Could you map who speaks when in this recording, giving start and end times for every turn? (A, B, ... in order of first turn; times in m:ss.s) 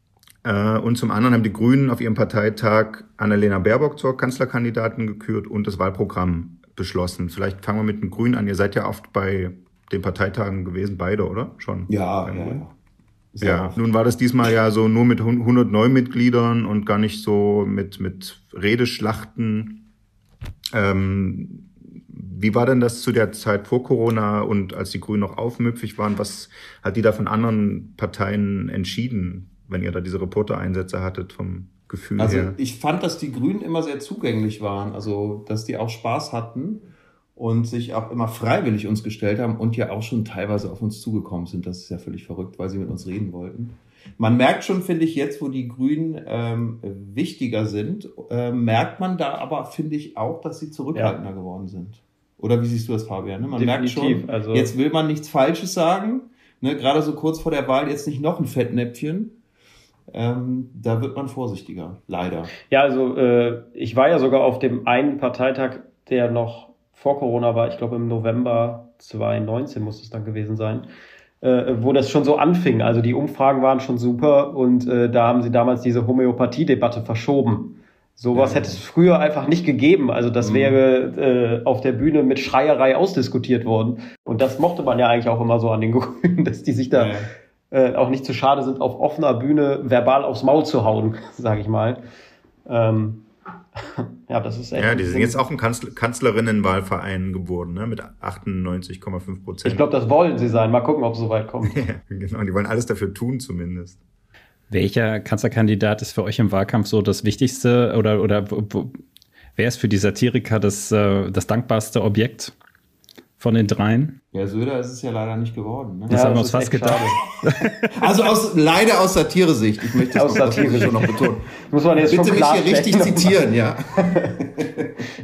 0:00.4-0:12.6 A
0:11.9-0:12.7 B
0:13.3-0:13.8 B
0:13.4-0:19.9 A
0:20.7-0:32.6 A
0:32.2-0:59.4 B
0:53.6-0:54.7 C
1:00.1-1:02.5 B
1:02.7-1:10.9 C
1:11.4-1:27.1 C
1:18.3-1:18.8 B
1:20.4-1:20.8 B
1:26.9-1:27.3 B
1:27.7-1:32.0 C
1:32.6-1:33.2 C
1:33.8-1:35.4 C
1:34.7-1:39.8 A
1:39.6-1:41.8 C
1:41.7-1:44.0 A
1:44.7-1:49.0 D
1:49.6-1:52.5 D
1:53.4-1:54.2 D
1:54.3-1:56.4 B
1:56.1-1:57.9 D
1:56.1-1:57.2 C
1:58.0-2:01.5 B
2:00.1-2:01.1 C
2:01.6-2:03.5 C
2:02.0-2:04.9 B